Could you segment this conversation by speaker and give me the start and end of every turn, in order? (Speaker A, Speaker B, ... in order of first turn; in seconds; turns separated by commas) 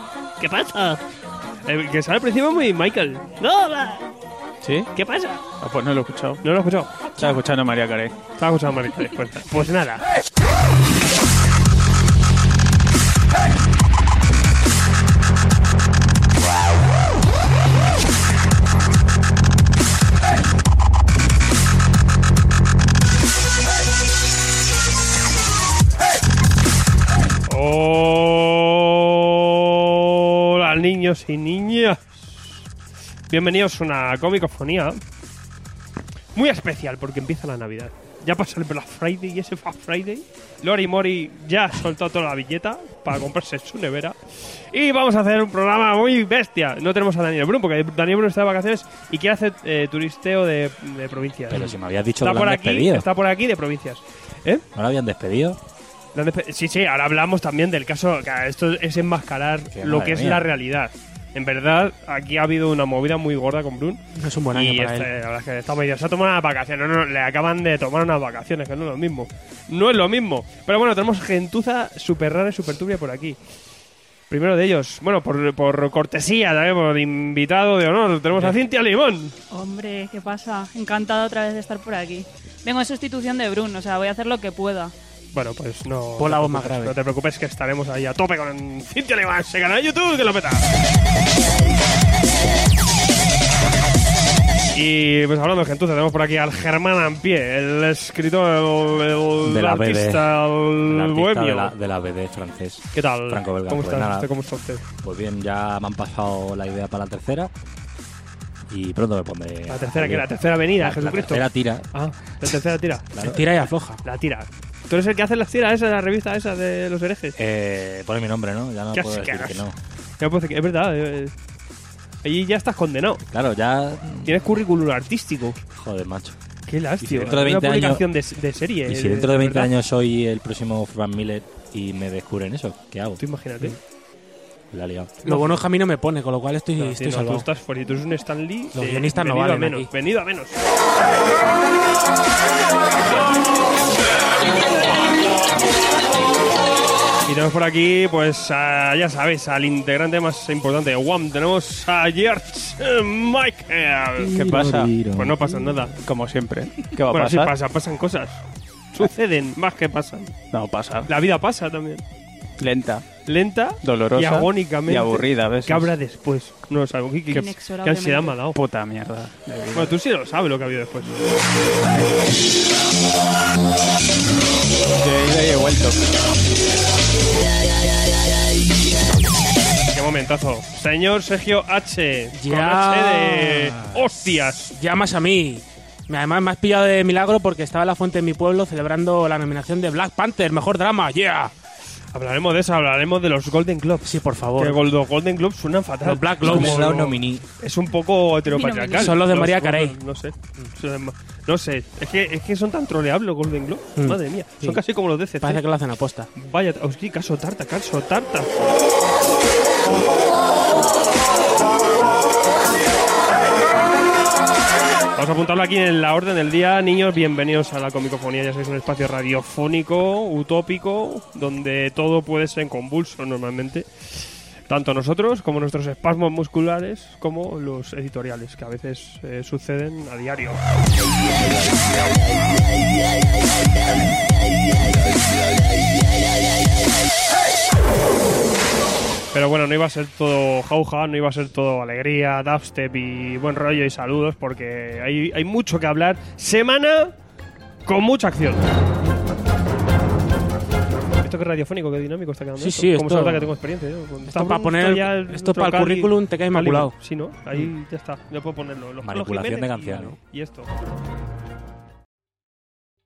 Speaker A: 0.4-1.0, Speaker A: 1.6-4.0, Speaker B: 4.6-4.9, Speaker A: 4.9-5.4, Speaker B: 5.6-6.4, Speaker A: 6.4-7.0, Speaker B: 7.1-8.2, Speaker A: 8.4-10.0, Speaker A: 27.5-32.2, Speaker A: 33.3-35.0, Speaker A: 36.3-54.6, Speaker C: 51.5-53.1, Speaker C: 54.7-55.6, Speaker A: 56.1-73.4, Speaker C: 59.7-60.5, Speaker D: 64.1-65.1, Speaker A: 74.3-79.3, Speaker E: 79.5-84.9, Speaker A: 85.3-90.7, Speaker D: 86.2-87.0, Speaker A: 94.7-101.7, Speaker C: 99.4-104.3, Speaker A: 102.9-104.8, Speaker C: 105.0-107.5, Speaker C: 108.7-111.9, Speaker A: 109.7-113.2, Speaker C: 113.1-113.4, Speaker D: 113.2-114.0, Speaker A: 114.0-117.4, Speaker C: 117.3-119.8, Speaker A: 118.9-119.7, Speaker A: 120.2-121.3, Speaker A: 122.2-123.2, Speaker C: 123.3-124.4, Speaker A: 124.2-125.6, Speaker C: 125.7-126.3, Speaker A: 126.7-129.7, Speaker C: 127.0-128.1, Speaker C: 128.8-133.2, Speaker A: 133.2-133.8, Speaker C: 134.7-135.1, Speaker A: 135.2-135.6, Speaker D: 135.2-137.5, Speaker A: 136.8-140.6, Speaker D: 138.7-139.9, Speaker A: 147.2-154.3, Speaker C: 154.2-155.4, Speaker B: 154.3-155.0, Speaker A: 155.1-155.9, Speaker B: 156.0-157.5, Speaker A: 157.1-160.3, Speaker B: 160.5-161.1, Speaker A: 161.1-162.0, Speaker B: 162.6-163.1, Speaker A: 163.2-168.6, Speaker B: 163.8-165.9, Speaker E: 167.3-168.4, Speaker B: 168.5-169.9, Speaker A: 169.7-171.2, Speaker B: 174.9-176.0, Speaker A: 179.9-184.7, Speaker D: 182.3-183.9, Speaker D: 184.7-191.5, Speaker A: 192.1-205.6, Speaker D: 194.0-194.8, Speaker D: 196.0-197.0, Speaker C: 196.4-197.4, Speaker E: 198.5-199.1, Speaker D: 199.0-200.0, Speaker D: 203.9-204.8, Speaker D: 205.4-206.3, Speaker A: 206.3-208.5, Speaker A: 215.2-230.6, Speaker A: 239.3-247.1, Speaker A: 247.8-248.6, Speaker A: 251.2-260.7, Speaker D: 252.6-253.5, Speaker D: 254.2-257.0, Speaker C: 259.0-260.2